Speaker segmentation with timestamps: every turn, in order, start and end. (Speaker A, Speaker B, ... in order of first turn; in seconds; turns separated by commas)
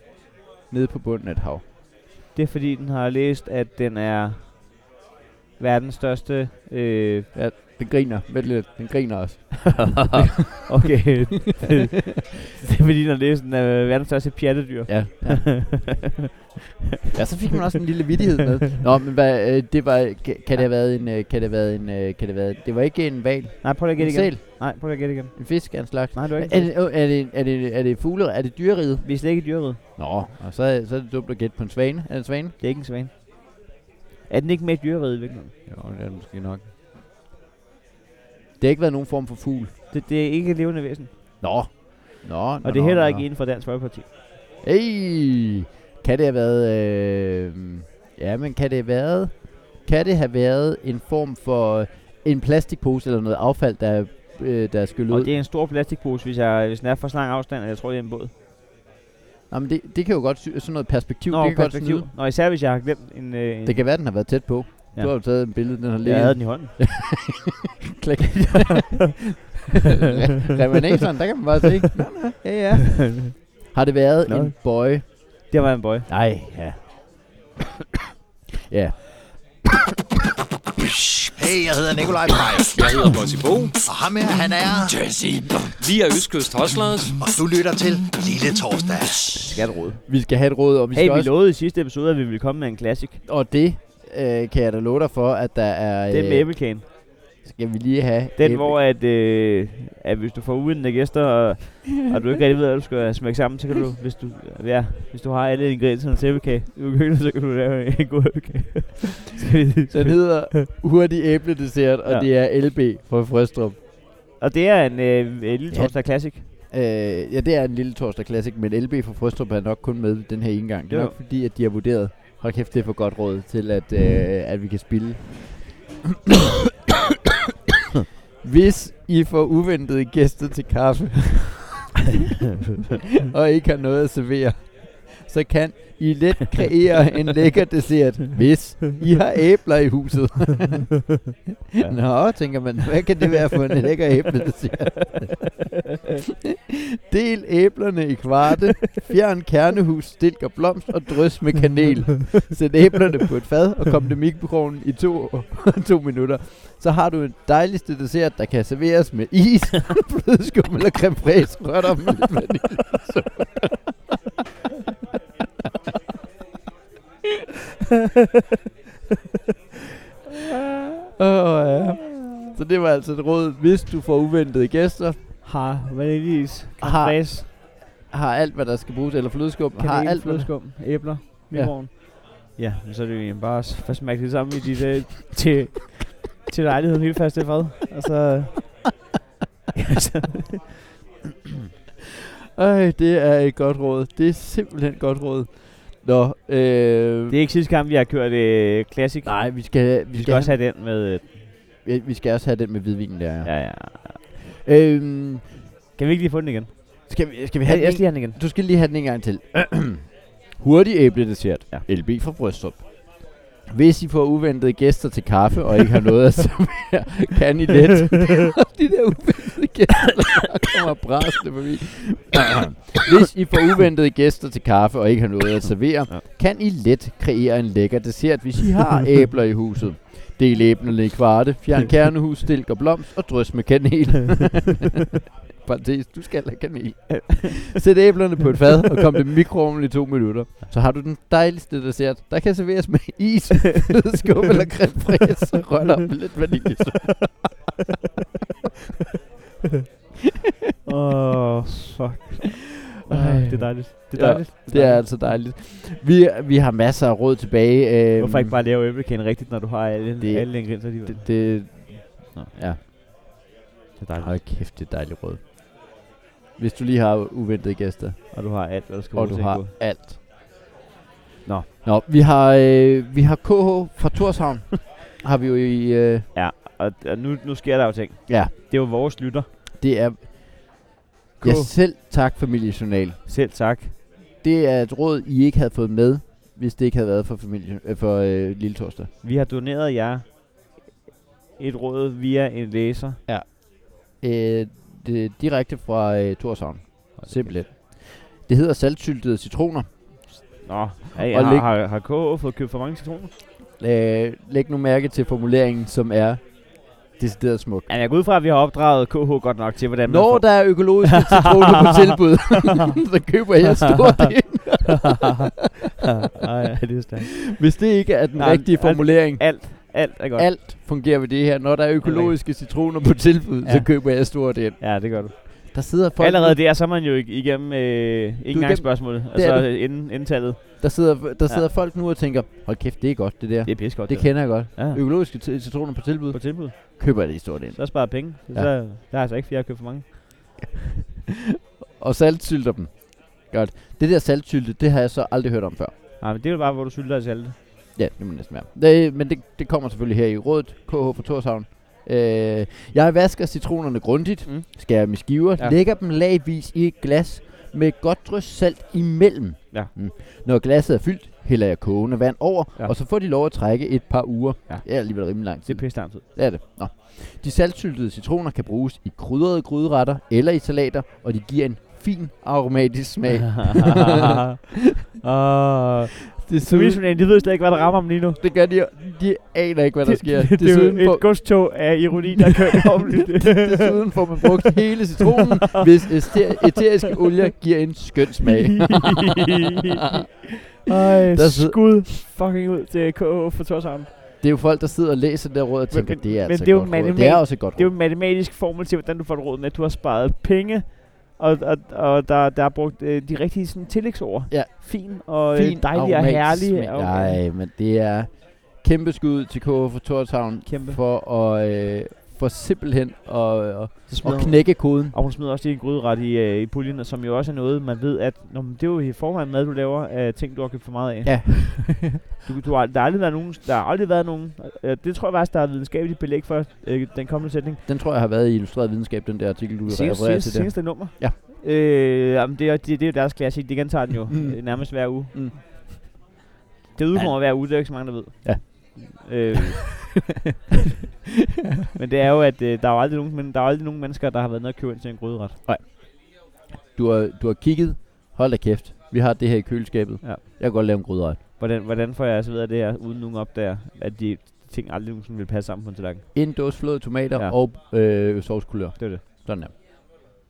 Speaker A: 0.7-1.6, Speaker B: 2.3-4.4, Speaker B: 5.6-7.3, Speaker A: 7.3-10.3, Speaker B: 10.1-16.1, Speaker A: 14.9-16.0, Speaker A: 17.1-32.5, Speaker B: 23.6-26.7, Speaker B: 29.0-29.8, Speaker B: 32.6-33.7, Speaker B: 34.3-35.5, Speaker A: 35.7-36.7, Speaker A: 38.6-39.7, Speaker B: 39.9-41.1, Speaker A: 41.4-43.3, Speaker B: 42.6-44.1, Speaker A: 44.6-55.3, Speaker B: 55.1-58.3, Speaker A: 59.5-62.1, Speaker B: 61.3-64.3, Speaker A: 63.6-69.2, Speaker B: 64.9-67.1, Speaker B: 68.3-69.0, Speaker A: 70.0-75.1, Speaker B: 72.9-73.4, Speaker B: 74.3-76.1, Speaker A: 76.1-77.3, Speaker A: 78.7-79.2, Speaker C: 81.3-83.0, Speaker D: 82.7-83.8, Speaker C: 83.8-85.2, Speaker D: 85.8-87.2, Speaker C: 87.2-89.6, Speaker B: 89.5-90.1, Speaker A: 90.0-91.3, Speaker B: 90.9-93.2, Speaker A: 93.2-96.8, Speaker B: 96.1-96.9, Speaker A: 97.4-98.8, Speaker B: 98.4-110.6, Speaker A: 109.9-113.8, Speaker B: 114.4-116.5, Speaker A: 115.7-125.7, Speaker B: 120.9-121.2, Speaker A: 128.4-131.9, Speaker A: 133.2-141.1, Speaker B: 141.8-142.5, Speaker A: 141.8-145.5, Speaker A: 146.7-163.9, Speaker A: 171.2-175.2, Speaker B: 175.4-177.5, Speaker A: 176.8-181.8, Speaker B: 179.8-188.8, Speaker B: 189.8-190.6, Speaker A: 192.6-197.4, Speaker B: 197.3-201.3, Speaker A: 199.2-200.6, Speaker A: 201.8-203.9, Speaker B: 203.4-204.2, Speaker A: 204.6-205.5, Speaker B: 206.0-208.4, Speaker A: 207.1-235.0, Speaker A: 235.6-247.4, Speaker B: 237.1-237.6, Speaker B: 250.8-255.4, Speaker A: 253.1-258.6, Speaker B: 258.2-261.6, Speaker A: 260.2-262.8, Speaker B: 264.0-264.4, Speaker A: 264.2-265.4, Speaker A: 266.6-270.2, Speaker B: 268.3-269.7, Speaker A: 271.8-276.3, Speaker B: 276.3-279.5, Speaker A: 278.3-278.5, Speaker A: 279.8-280.9, Speaker A: 281.4-283.2, Speaker B: 281.4-281.7, Speaker B: 283.2-283.9, Speaker A: 284.4-289.1, Speaker B: 289.2-290.2, Speaker B: 291.6-293.2, Speaker A: 293.2-300.4, Speaker B: 297.2-297.6, Speaker B: 300.6-303.3, Speaker A: 301.1-301.7, Speaker A: 303.8-307.9, Speaker B: 307.9-311.9, Speaker A: 310.0-315.2, Speaker B: 316.3-317.5, Speaker A: 317.5-326.6, Speaker B: 318.4-320.5, Speaker B: 322.0-322.4, Speaker B: 323.6-331.6, Speaker A: 328.5-338.7, Speaker B: 333.6-335.0, Speaker B: 336.3-340.2, Speaker A: 342.0-345.9, Speaker B: 346.2-347.5, Speaker A: 347.9-374.2, Speaker B: 354.4-355.8, Speaker B: 364.7-366.2, Speaker B: 373.6-374.6, Speaker B: 375.2-378.4, Speaker A: 376.4-377.4, Speaker A: 378.4-381.9, Speaker B: 380.0-386.8, Speaker A: 382.8-389.3, Speaker B: 388.4-390.3, Speaker A: 390.1-390.5, Speaker B: 390.8-394.1, Speaker A: 391.3-392.1, Speaker A: 394.4-397.9, Speaker B: 395.9-407.4, Speaker A: 404.5-415.1, Speaker B: 410.6-411.0, Speaker B: 414.1-427.8, Speaker A: 421.2-422.3, Speaker A: 427.9-431.4, Speaker B: 429.9-435.6, Speaker A: 434.3-435.7, Speaker B: 436.9-440.1, Speaker A: 437.1-439.6, Speaker B: 441.9-445.6, Speaker A: 445.6-446.1, Speaker A: 446.9-451.4, Speaker B: 450.2-451.0, Speaker B: 451.6-456.5, Speaker A: 456.3-459.7